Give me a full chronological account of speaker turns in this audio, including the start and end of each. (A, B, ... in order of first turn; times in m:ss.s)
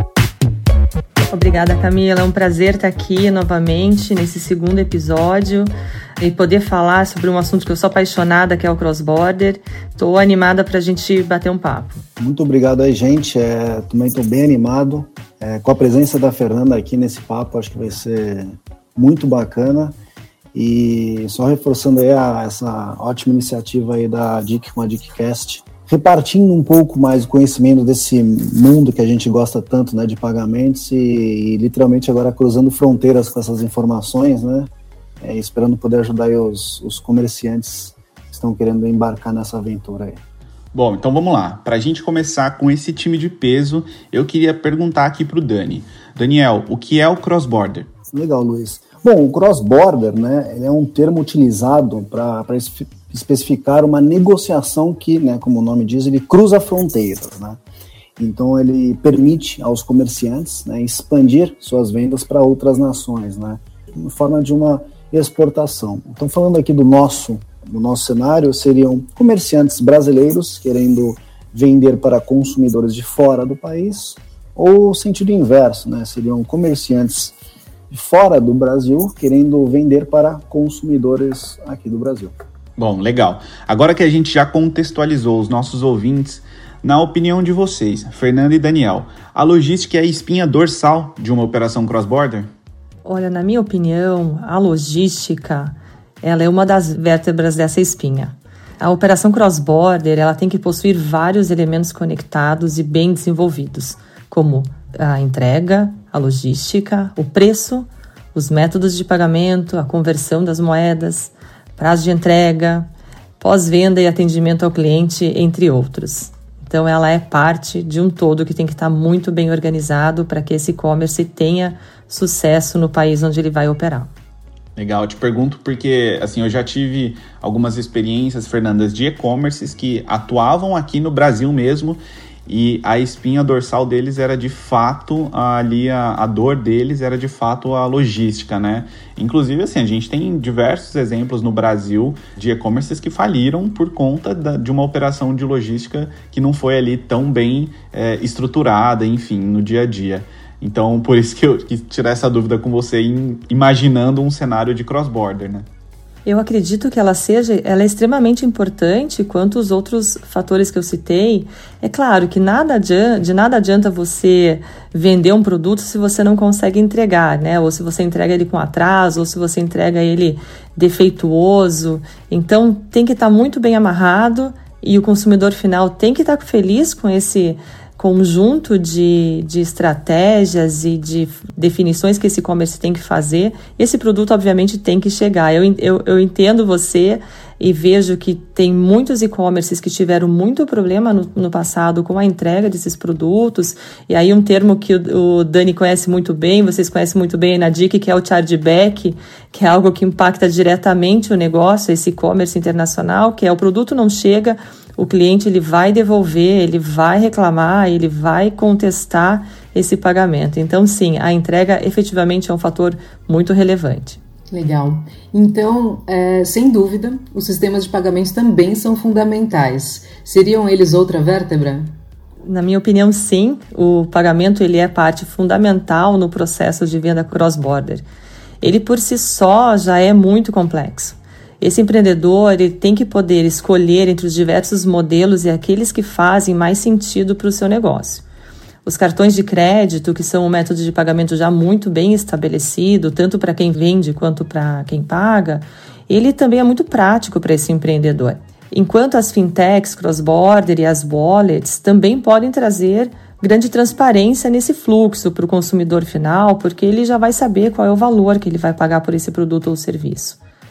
0:01.2-0:12.0 A
0:12.2-0:20.0 B
0:20.5-0:34.7 B
0:35.2-0:40.2 B
0:40.7-0:47.9 C
0:48.1-0:57.6 B
0:58.2-1:17.3 B
1:17.9-1:22.3 B
1:22.8-1:32.5 C
1:33.0-1:52.9 A
1:53.4-2:04.1 A
2:04.8-2:35.6 C
2:36.2-3:34.2 A
3:34.5-3:41.9 D
3:42.4-3:48.0 A
3:48.6-3:58.2 A
3:58.8-4:20.4 A